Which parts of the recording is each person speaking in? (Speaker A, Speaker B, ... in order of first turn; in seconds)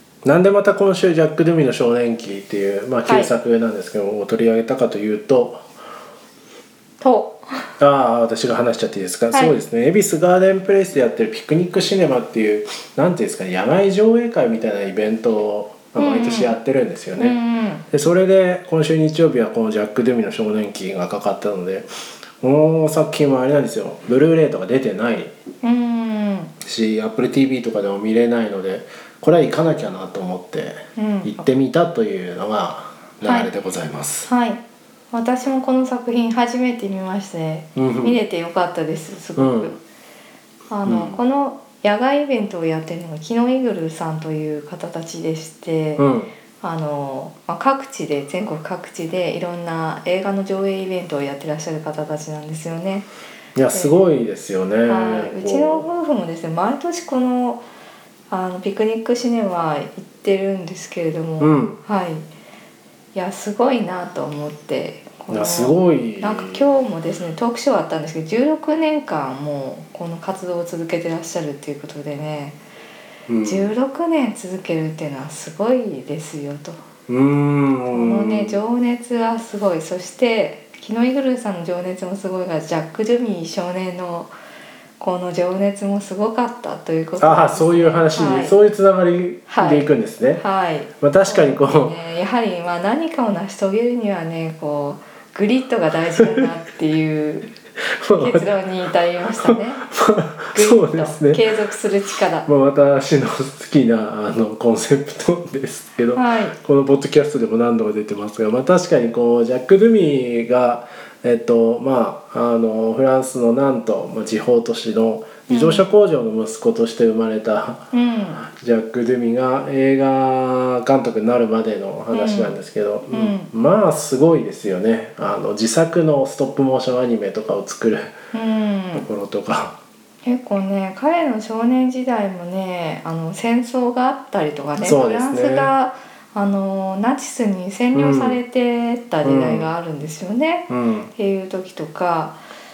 Speaker A: 0.2-5.6, 7.8-17.4, 17.9-21.9, 22.4-25.3, 26.6-34.3, 37.8-38.2, 39.4-39.7, 40.9-41.2, 46.0-46.3, 53.5-55.9, 61.4-61.8, 65.3-66.7, 73.3-73.7, 77.1-78.6, 87.2-90.4, 91.0-91.9, 98.0-98.5, 99.4-101.4, 102.4-128.1, 128.9-129.8, 134.8-135.7, 137.9-138.4, 139.2-139.7, 140.7-141.1
Speaker B: 3.0-3.3, 7.0-7.5, 15.9-16.6, 17.2-17.8, 25.6-26.5, 30.9-31.4, 33.2-33.5, 34.3-39.8, 40.7-46.0, 46.6-53.1, 54.9-57.6, 58.3-62.2, 63.1-72.6, 73.4-76.8, 77.9-84.3, 85.0-88.5, 89.5-97.5, 98.1-99.8, 100.5-102.5, 106.1-106.5, 115.5-115.9, 117.9-118.4, 122.1-122.6, 123.1-123.5, 128.3-129.1, 130.2-142.4